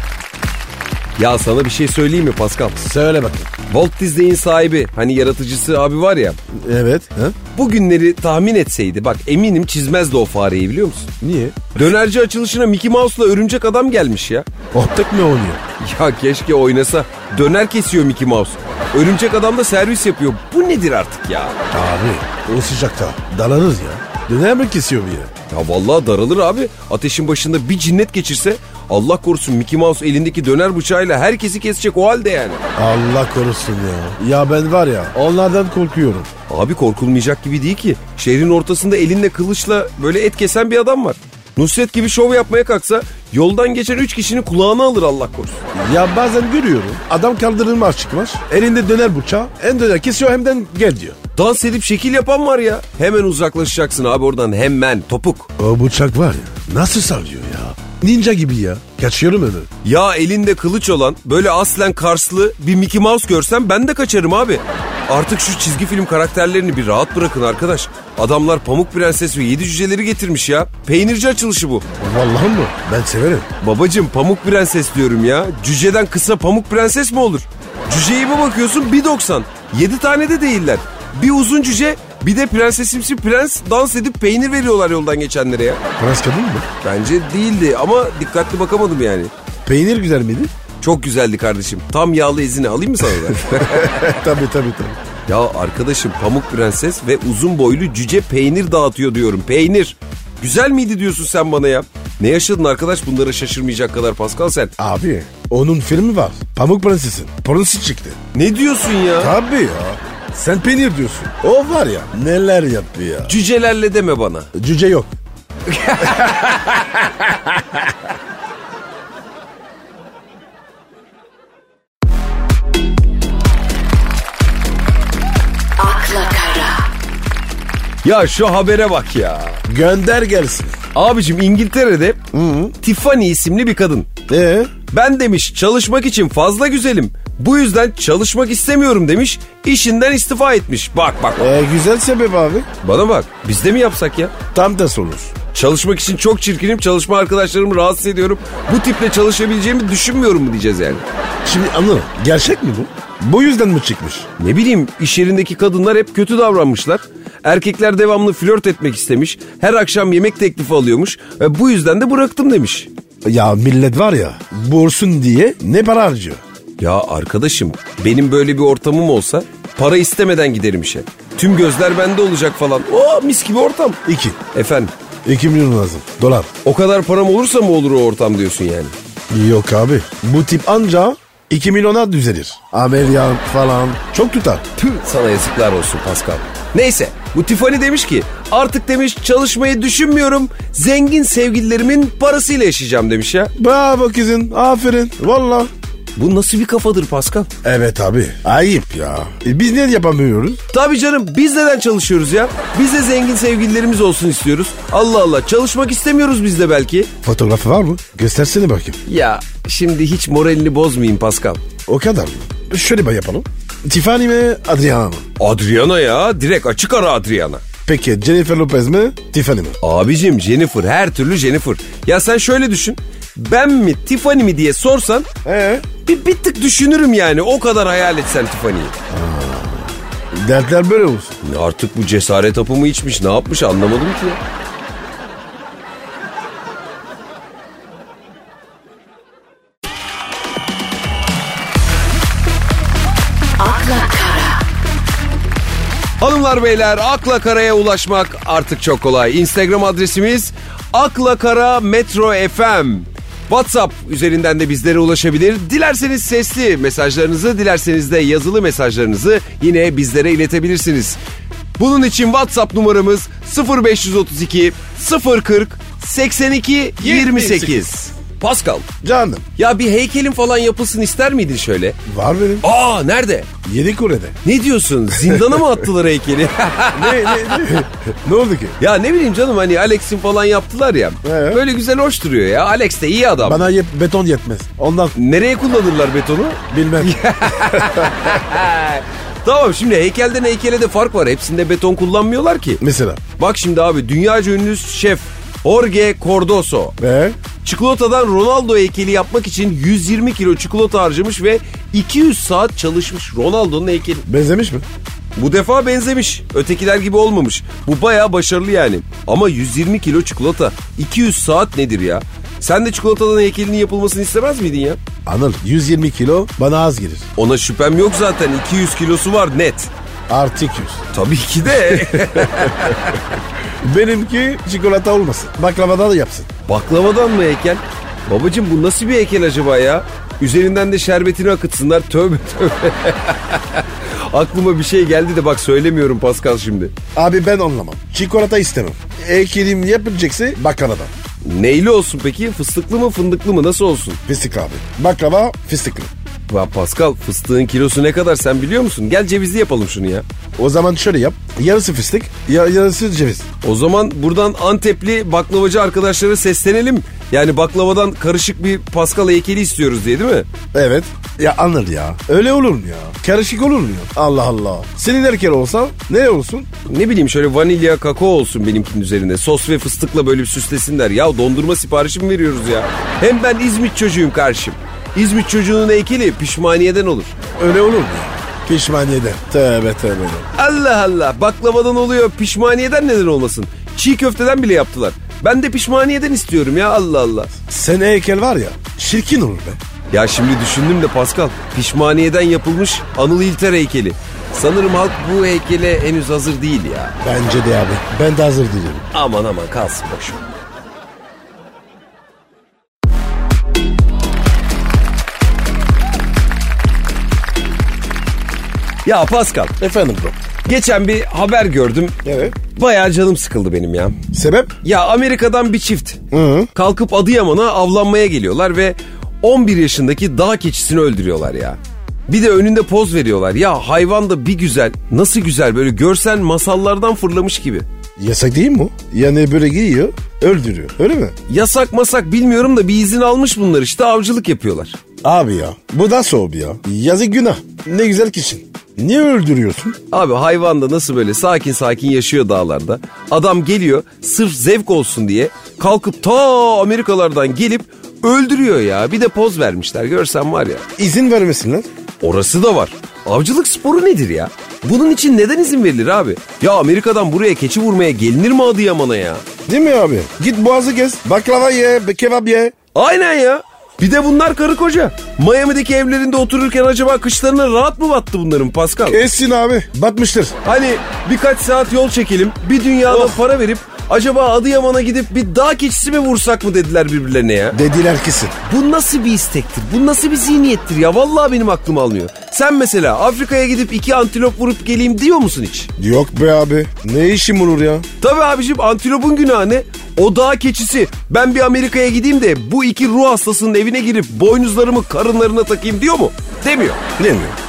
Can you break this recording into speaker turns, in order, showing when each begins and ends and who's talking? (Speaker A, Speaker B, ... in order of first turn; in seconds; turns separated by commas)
Speaker A: 1.2-2.8, Speaker B: 2.8-3.5, Speaker A: 3.7-6.4, Speaker B: 6.5-7.4, Speaker A: 7.5-11.1, Speaker B: 11.2-11.7, Speaker A: 11.8-14.5, Speaker B: 14.7-15.6, Speaker A: 15.8-21.6, Speaker B: 21.7-25.3, Speaker A: 25.5-32.6, Speaker B: 32.8-36.3, Speaker A: 36.5-45.6, Speaker B: 45.7-51.2, Speaker A: 51.4-55.5, Speaker B: 55.6-59.7, Speaker A: 59.8-71.9, Speaker B: 72.0-73.5, Speaker A: 73.6-85.8, Speaker B: 86.0-86.7, Speaker A: 86.8-89.3, Speaker B: 89.7-90.5, Speaker A: 90.8-94.2, Speaker B: 93.5-95.0, Speaker A: 95.3-104.7, Speaker B: 104.8-108.2, Speaker A: 108.3-109.3, Speaker B: 109.2-113.3, Speaker A: 113.3-114.5, Speaker B: 114.5-115.1, Speaker A: 115.7-116.7, Speaker B: 116.2-117.8, Speaker C: 125.8-126.9, Speaker A: 128.0-129.6, Speaker B: 129.7-130.8, Speaker A: 130.9-132.2, Speaker B: 132.3-132.7, Speaker A: 132.8-134.1, Speaker B: 134.3-134.7, Speaker A: 134.9-141.5, Speaker B: 141.4-142.7, Speaker A: 142.8-144.3, Speaker B: 144.5-145.3, Speaker A: 145.5-151.1, Speaker B: 151.4-154.3, Speaker A: 154.4-162.9, Speaker B: 163.2-166.4, Speaker A: 166.8-174.0, Speaker B: 174.1-174.4, Speaker A: 174.5-174.9, Speaker B: 175.2-176.5, Speaker A: 176.6-178.9, Speaker B: 179.3-184.7, Speaker A: 184.8-193.5, Speaker B: 193.6-195.7, Speaker A: 196.2-197.5, Speaker B: 197.6-200.6, Speaker A: 200.7-207.1, Speaker B: 207.2-209.0, Speaker A: 209.1-211.6, Speaker B: 211.9-215.2, Speaker A: 215.4-217.6, Speaker B: 217.9-219.8, Speaker A: 219.8-225.3, Speaker B: 225.4-225.9, Speaker A: 226.0-228.9, Speaker B: 229.1-231.4, Speaker A: 231.4-234.4, Speaker C: 243.6-244.7, Speaker A: 246.2-261.2, Speaker A: 261.8-268.9, Speaker B: 267.0-267.9, Speaker B: 269.0-269.5, Speaker A: 269.6-272.0, Speaker B: 272.1-272.7, Speaker A: 272.6-273.5, Speaker B: 273.6-274.4, Speaker A: 274.4-277.7, Speaker B: 276.9-278.8, Speaker A: 278.8-283.7, Speaker B: 281.2-281.6, Speaker B: 283.4-285.1, Speaker A: 285.1-292.8, Speaker B: 286.7-288.2, Speaker B: 292.8-293.2, Speaker A: 293.4-297.0, Speaker B: 297.0-297.4, Speaker A: 297.6-304.2, Speaker B: 304.3-304.9, Speaker A: 305.4-315.0, Speaker B: 315.3-317.3, Speaker A: 317.4-319.9, Speaker B: 320.3-321.1, Speaker A: 321.1-323.3, Speaker B: 321.9-323.0, Speaker B: 323.7-326.5, Speaker A: 326.7-336.9, Speaker B: 337.1-341.1, Speaker A: 341.4-344.2, Speaker B: 344.3-346.1, Speaker A: 346.5-350.2, Speaker B: 350.6-353.5, Speaker A: 353.6-360.5, Speaker B: 360.7-366.7, Speaker A: 366.9-377.4, Speaker B: 377.6-380.5, Speaker A: 380.6-387.5, Speaker B: 387.7-389.8, Speaker A: 390.1-397.1, Speaker B: 397.2-399.1, Speaker A: 399.1-400.4, Speaker A: 409.1-409.8, Speaker B: 409.8-410.4, Speaker A: 410.7-414.2, Speaker B: 412.2-412.6, Speaker B: 414.3-414.8, Speaker A: 414.8-416.2, Speaker B: 416.3-416.7, Speaker A: 416.8-427.9, Speaker B: 428.2-431.4, Speaker A: 431.5-435.0, Speaker B: 435.2-440.0, Speaker A: 440.1-450.9, Speaker B: 451.0-451.9, Speaker A: 452.2-459.5, Speaker B: 459.7-462.7, Speaker A: 462.9-469.2, Speaker B: 469.1-470.6, Speaker A: 470.6-477.8, Speaker B: 473.1-473.4, Speaker B: 477.7-478.6, Speaker A: 478.6-485.9, Speaker B: 486.0-488.1, Speaker A: 488.2-497.0, Speaker B: 497.2-497.6